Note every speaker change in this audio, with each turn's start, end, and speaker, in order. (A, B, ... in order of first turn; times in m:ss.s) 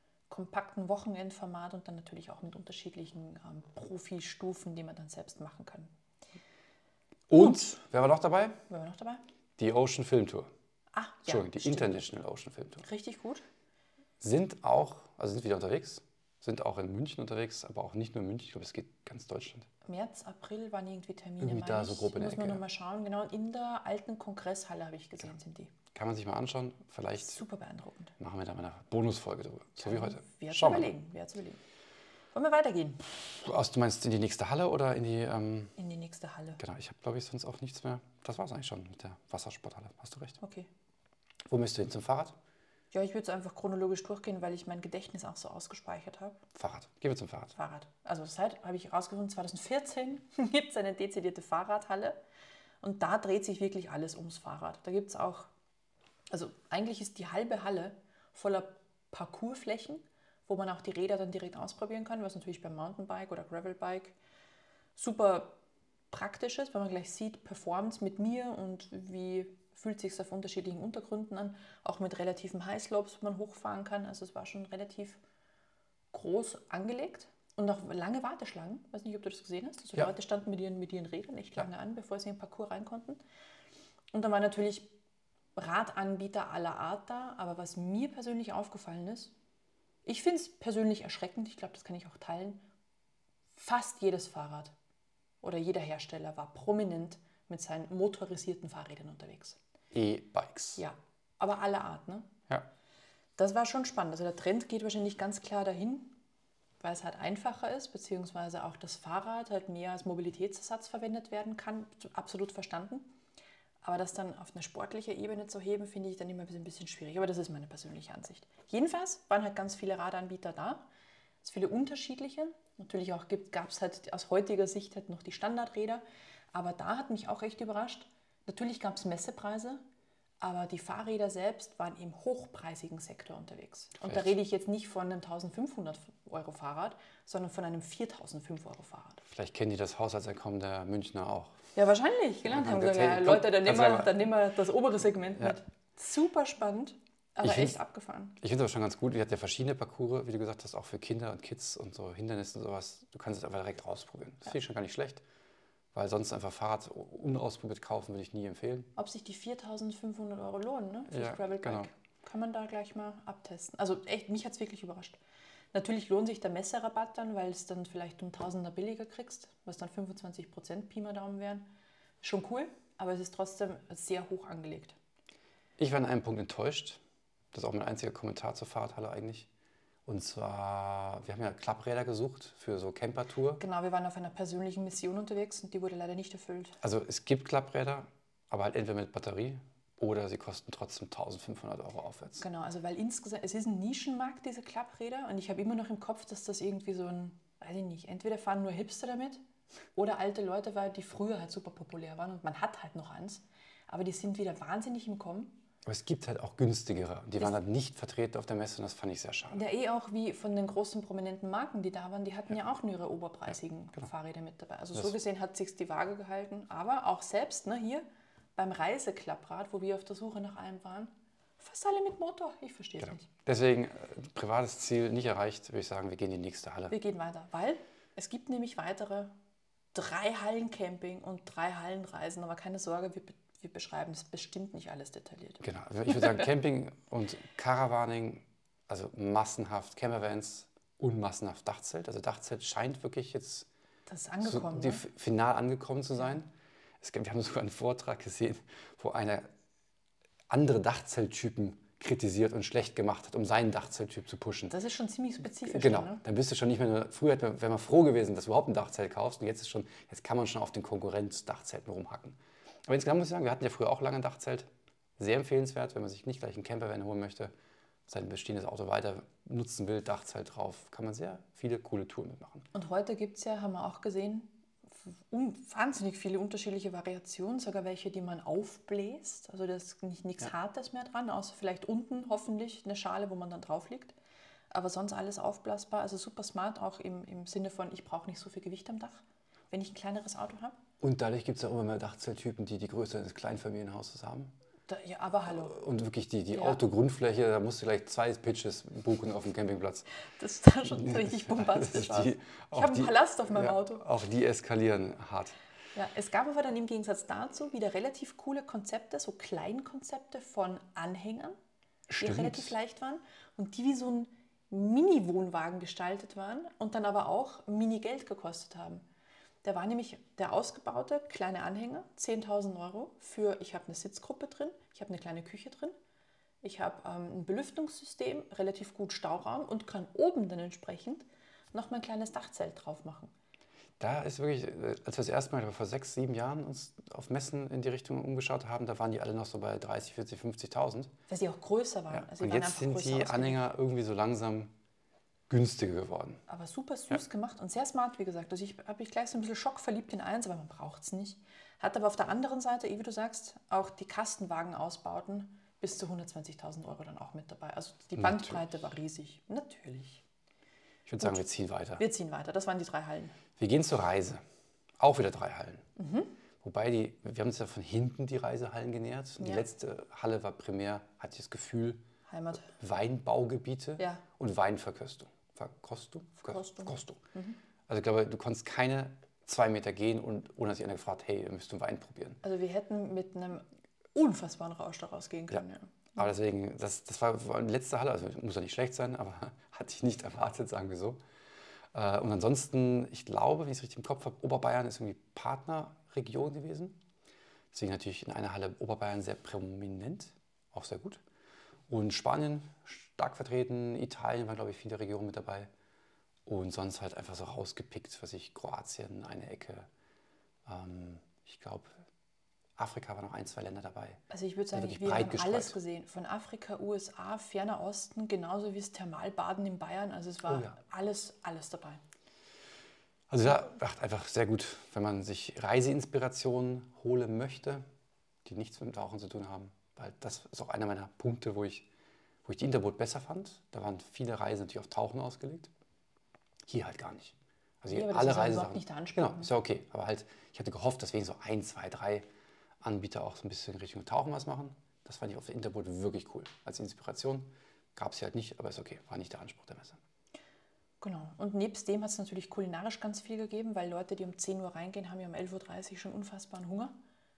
0:00.3-0:05.9 A
0:07.3-0:08.6 B
0:07.4-0:07.8 A
0:08.7-0:09.2 A
0:09.6-0:10.5 B
0:10.9-0:12.1 A
0:11.3-0:12.8 B
0:12.8-0:13.4 A
0:14.2-0:19.7 B
0:19.9-0:25.7 A
0:21.4-0:22.6 B
0:25.9-0:27.4 B
0:27.2-0:28.1 A
0:28.2-0:30.9 B
0:29.8-0:31.6 A
0:32.3-0:33.1 A
0:33.2-0:35.8 B
0:35.8-0:36.6 A
0:36.6-0:40.4 B
0:40.4-0:40.7 A
0:41.5-0:42.4 B
0:42.9-0:46.4 A
0:46.6-0:47.6 B
0:47.6-0:52.2 A
0:52.8-0:55.5 A
0:56.3-1:04.2 A
1:05.0-1:05.6 A
1:06.1-1:15.2 A
1:16.1-1:23.2 A
1:24.1-1:24.9 A
1:25.6-1:29.3 A
1:30.0-1:32.6 A
1:33.6-1:34.7 A
1:35.4-1:39.6 A
1:39.9-1:40.8 B
1:40.8-1:42.3 A
1:43.4-1:46.2 A
1:46.8-1:53.1 A
1:53.8-2:00.9 A
2:01.4-2:09.8 A
2:10.4-2:19.2 A
2:14.0-2:14.4 B
2:19.3-2:21.6 B
2:21.8-2:28.4 A
2:22.4-2:24.2 B
2:27.4-2:27.8 B
2:28.4-2:35.2 B
2:35.9-2:38.9 B
2:39.0-2:45.2 A
2:41.1-2:41.9 B
2:45.7-2:51.7 A
2:52.2-2:55.0 A
2:55.8-2:57.0 B
2:57.5-2:59.5 B
3:00.1-3:03.6 B
3:03.6-3:06.8 A
3:06.8-3:12.4 B
3:12.4-3:19.4 A
3:20.0-3:25.6 A
3:25.8-3:29.6 B
3:29.5-3:38.0 A
3:38.6-3:43.3 A
3:43.0-3:47.0 B
3:46.9-3:49.3 A
3:49.9-3:56.4 A
3:55.6-4:03.7 B
4:04.1-4:05.0 A
4:04.4-4:06.5 B
4:07.0-4:09.5 B
4:10.5-4:14.8 B
4:14.7-4:16.2 A
4:15.7-4:27.5 B
4:28.1-4:32.7 B
4:32.7-4:44.1 A
4:44.7-4:50.8 A
4:51.0-4:54.5 B
4:54.9-4:55.8 A
4:55.5-5:00.1 B
4:56.5-4:56.8 A
5:00.4-5:04.0 A
5:00.9-5:05.6 B
5:06.0-5:11.6 A
5:12.1-5:12.7 B
5:12.2-5:19.0 A
5:19.6-5:25.9 A
5:26.6-5:33.3 A
5:34.0-5:41.1 B
5:41.3-5:43.7 A
5:42.1-5:44.7 B
5:45.5-5:46.4 B
5:46.5-6:00.2 A
5:58.2-5:58.6 B
6:01.1-6:02.0 B
6:02.0-6:03.4 A
6:03.6-6:04.4 B
6:05.0-6:05.8 B
6:06.0-6:06.4 A
6:06.6-6:12.0 B
6:09.4-6:09.7 A
6:12.3-6:12.7 A
6:12.8-6:17.2 B
6:14.0-6:14.2 A
6:16.5-6:17.6 A
6:17.9-6:22.4 B
6:22.4-6:26.3 A
6:26.2-6:31.2 B
6:31.9-6:37.0 B
6:37.7-6:41.2 B
6:41.9-6:45.7 B
6:46.5-6:49.9 B
6:50.7-6:51.9 B
6:52.8-6:54.2 B
6:54.3-7:02.0 A
6:54.7-6:55.8 B
7:00.5-7:00.7 B
7:03.3-7:07.8 B
7:08.4-7:11.9 B
7:12.4-7:15.7 B
7:16.7-7:22.3 B
7:17.9-7:19.5 A
7:22.8-7:30.0 B
7:31.0-7:36.9 A